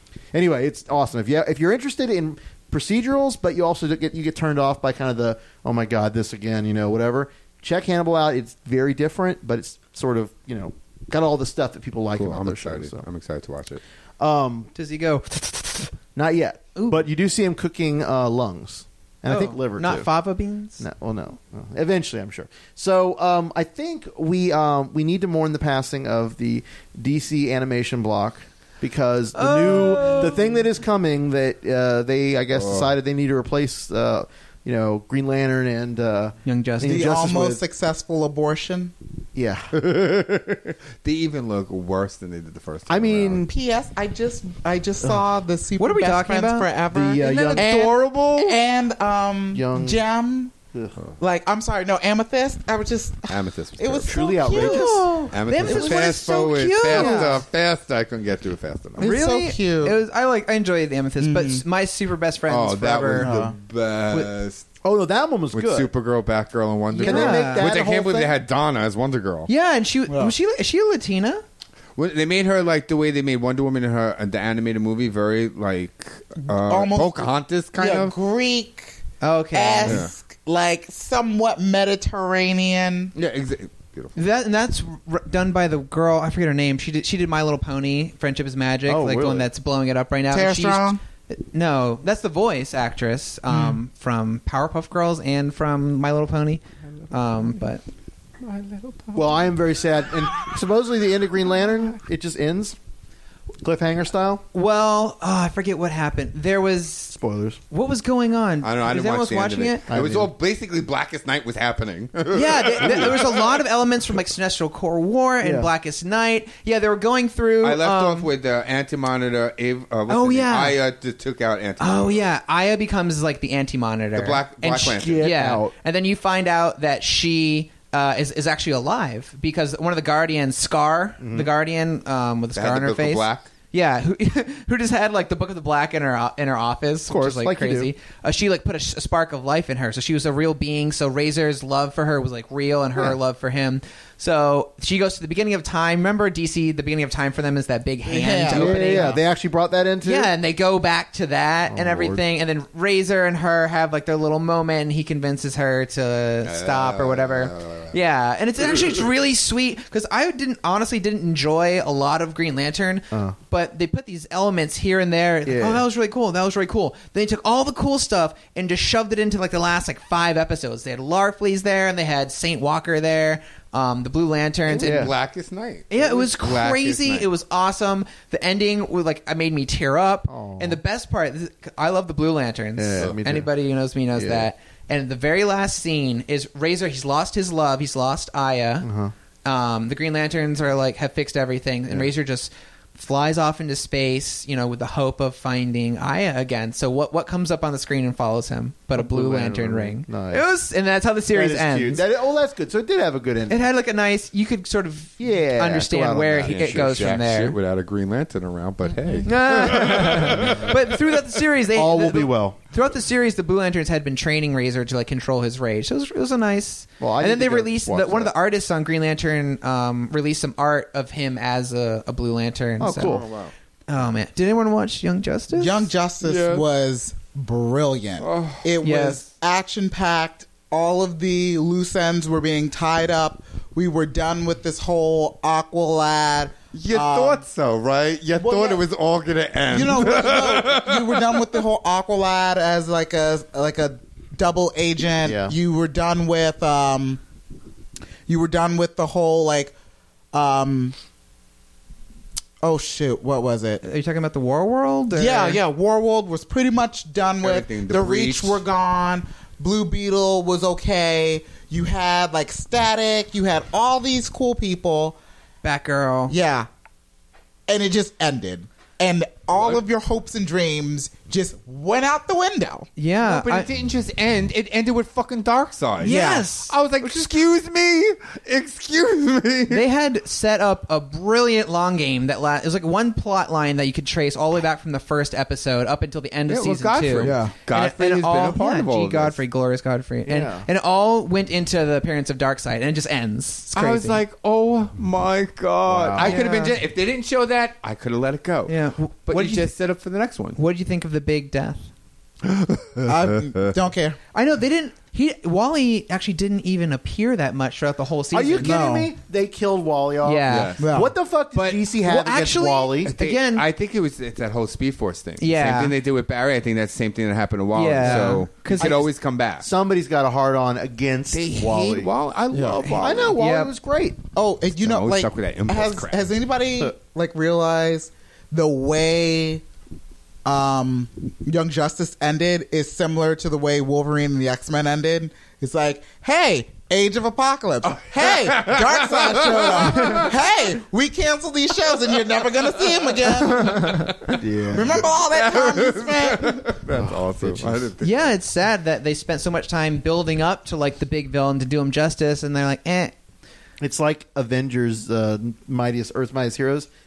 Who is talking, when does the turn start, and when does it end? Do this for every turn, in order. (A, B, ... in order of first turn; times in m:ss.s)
0:00.3-0:13.0 A
0:12.1-0:13.8 B
0:14.2-0:14.7 A
0:14.7-0:15.9 C
0:16.1-0:20.1 A
0:16.8-0:17.0 C
0:19.3-0:20.8 C
0:20.8-0:37.6 A
0:29.3-0:30.6 C
0:32.5-0:32.9 B
0:36.4-0:37.1 C
0:36.8-0:38.9 D
0:39.3-0:39.7 A
0:39.7-0:43.4 B
0:42.9-0:43.5 A
0:43.5-0:50.5 D
0:45.8-0:47.9 C
0:46.9-0:48.5 A
0:49.5-0:50.0 A
0:51.2-0:55.2 D
0:53.3-0:54.1 B
0:54.1-0:55.1 A
0:54.4-0:57.4 C
0:55.3-0:59.1 B
0:56.9-0:57.4 A
0:59.0-1:00.0 D
0:59.0-1:03.3 C
1:01.2-1:01.6 D
1:02.5-1:04.6 B
1:03.2-1:03.5 D
1:04.8-1:05.9 A
1:05.5-1:09.5 B
1:06.9-1:08.4 A
1:06.9-1:07.8 C
1:09.5-1:11.4 C
1:10.1-1:10.3 D
1:12.0-1:18.1 B
1:16.4-1:19.0 D
1:19.2-1:20.0 C
1:19.5-1:23.1 D
1:19.8-1:20.1 B
1:23.1-1:24.2 B
1:24.2-1:37.8 C
1:28.9-1:29.5 A
1:30.3-1:31.0 D
1:33.5-1:33.8 D
1:38.4-1:39.5 B
1:39.1-1:42.8 A
1:43.6-1:44.4 A
1:44.5-1:47.2 C
1:47.1-1:47.6 A
1:47.7-1:49.8 C
1:48.6-1:53.5 B
1:49.9-1:50.3 A
1:52.3-1:58.3 C
1:55.4-1:55.7 A
1:57.6-2:02.2 B
2:00.1-2:00.8 C
2:01.8-2:29.2 C
2:04.2-2:05.3 B
2:05.0-2:05.7 A
2:11.2-2:11.5 A
2:12.5-2:13.5 B
2:17.1-2:17.9 A
2:28.0-2:29.2 D
2:28.5-2:30.3 A
2:30.0-2:55.1 C
2:31.7-2:32.2 A
2:36.4-2:38.0 B
2:43.1-2:43.4 A
2:45.4-2:45.8 A
2:54.7-2:55.1 A
2:54.8-2:57.3 B
2:55.9-3:08.9 C
3:00.3-3:00.8 A
3:02.8-3:03.5 A
3:04.1-3:04.5 A
3:08.8-3:09.1 A
3:09.4-3:22.0 C
3:18.9-3:20.4 A
3:21.3-3:23.6 A
3:23.5-3:27.6 C
3:25.2-3:27.2 A
3:26.4-3:31.0 B
3:29.2-3:43.2 C
3:31.7-3:32.6 A
3:37.0-3:38.3 A
3:42.8-3:43.3 A
3:43.0-3:43.5 B
3:43.9-3:45.9 C
3:45.5-3:57.4 D
3:46.2-3:46.6 B
3:48.2-3:48.7 B
3:48.8-3:49.2 C
3:56.7-4:01.4 B
3:58.4-3:58.8 D
3:59.7-4:07.2 D
4:05.2-4:05.5 A
4:08.3-4:09.7 D
4:10.3-4:11.0 D
4:12.6-4:13.8 D
4:13.8-4:15.6 C
4:15.1-4:25.2 D
4:17.4-4:18.6 B
4:25.6-4:26.3 C
4:26.3-4:26.7 D
4:27.7-4:32.9 D
4:33.0-4:33.7 C
4:33.2-4:39.8 B
4:36.0-4:36.4 D
4:36.0-4:36.7 C
4:39.7-4:54.2 C
4:46.5-4:49.4 B
4:47.2-4:47.5 D
4:50.3-4:50.6 A
4:53.7-5:00.6 B
4:55.9-4:56.4 A
4:56.2-4:56.8 C
4:58.7-4:59.7 C
5:00.6-5:01.9 C
5:02.4-5:03.7 B
5:03.0-5:04.2 D
5:04.3-5:08.8 C
5:08.3-5:13.1 A
5:08.6-5:09.1 D
5:10.2-5:10.8 C
5:10.5-5:10.8 B
5:10.8-5:11.1 D
5:11.5-5:13.7 C
5:13.1-5:19.7 B
5:15.4-5:15.9 C
5:17.7-5:19.0 C
5:18.0-5:22.1 A
5:21.3-5:23.4 B
5:22.5-5:22.8 D
5:22.8-5:24.2 A
5:22.8-5:23.7 C
5:24.3-5:29.6 D
5:24.8-5:26.3 B
5:30.4-5:44.1 D
5:38.2-5:40.3 B
5:43.4-5:44.4 C
5:44.4-5:45.0 A
5:44.7-5:46.7 D
5:45.0-5:48.3 B
5:46.9-5:47.9 A
5:48.0-5:53.1 C
5:53.8-5:56.9 A